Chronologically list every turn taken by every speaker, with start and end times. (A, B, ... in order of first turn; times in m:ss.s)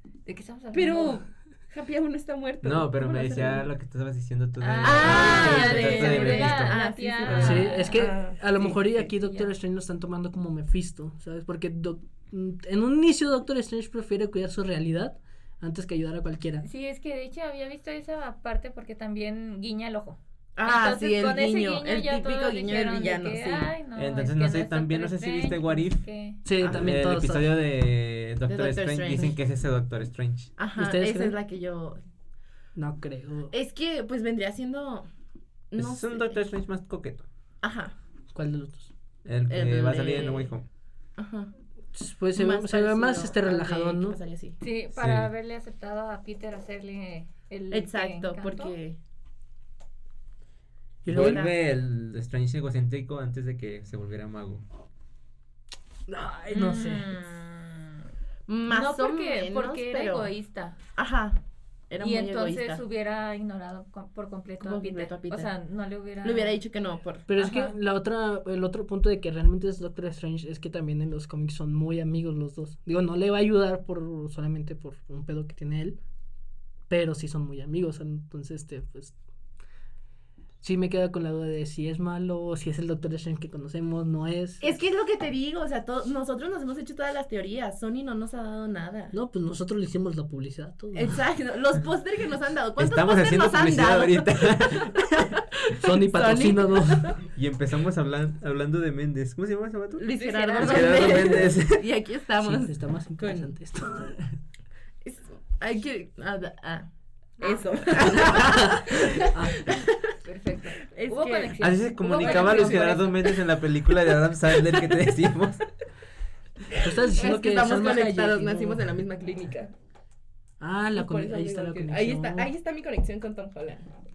0:00.2-0:01.2 A
0:00.7-0:03.7 B
0:02.6-0:07.7 C
0:04.6-0:08.1 A
0:04.8-0:08.9 B
0:07.3-0:16.6 D
0:09.2-0:09.5 A
0:16.6-0:26.4 A
0:20.6-0:23.7 B
0:23.9-0:26.0 C
0:26.4-0:27.5 D
0:26.6-0:30.6 C
0:28.5-0:29.3 B
0:30.6-0:32.0 B
0:30.8-0:31.4 D
0:32.8-0:33.5 D
0:33.5-0:35.1 B
0:35.7-0:36.4 B
0:35.7-0:37.2 C
0:37.6-0:37.9 B
0:38.3-0:38.9 D
0:39.2-0:40.6 C
0:39.5-0:40.5 B
0:41.2-0:41.5 B
0:41.9-0:44.2 D
0:42.3-0:44.6 B
0:44.6-0:48.8 A
0:45.0-0:45.3 C
0:47.7-0:49.0 B
0:51.0-0:51.4 D
0:51.1-0:54.6 C
0:51.1-0:51.5 B
0:56.1-0:57.1 D
0:56.5-0:58.0 A
0:58.5-1:00.3 B
0:58.7-1:00.8 A
1:01.0-1:02.8 B
1:02.0-1:06.6 A
1:04.6-1:05.5 B
1:06.2-1:07.7 B
1:07.3-1:16.0 D
1:16.9-1:19.2 D
1:20.6-1:24.7 D
1:24.6-1:29.1 B
1:29.1-1:31.2 D
1:30.9-1:37.2 B
1:32.8-1:35.2 C
1:35.8-1:37.2 D
1:37.3-1:41.9 C
1:40.0-1:43.5 B
1:40.1-1:41.5 A
1:42.4-1:44.3 D
1:45.0-1:46.9 B
1:47.4-1:47.8 A
1:47.4-1:50.1 B
1:48.4-1:49.8 D
1:50.2-1:53.2 A
1:50.9-1:53.3 B
1:51.6-1:55.7 C
1:56.7-1:59.7 B
1:56.8-1:58.8 D
2:00.6-2:02.5 D
2:00.9-2:03.9 B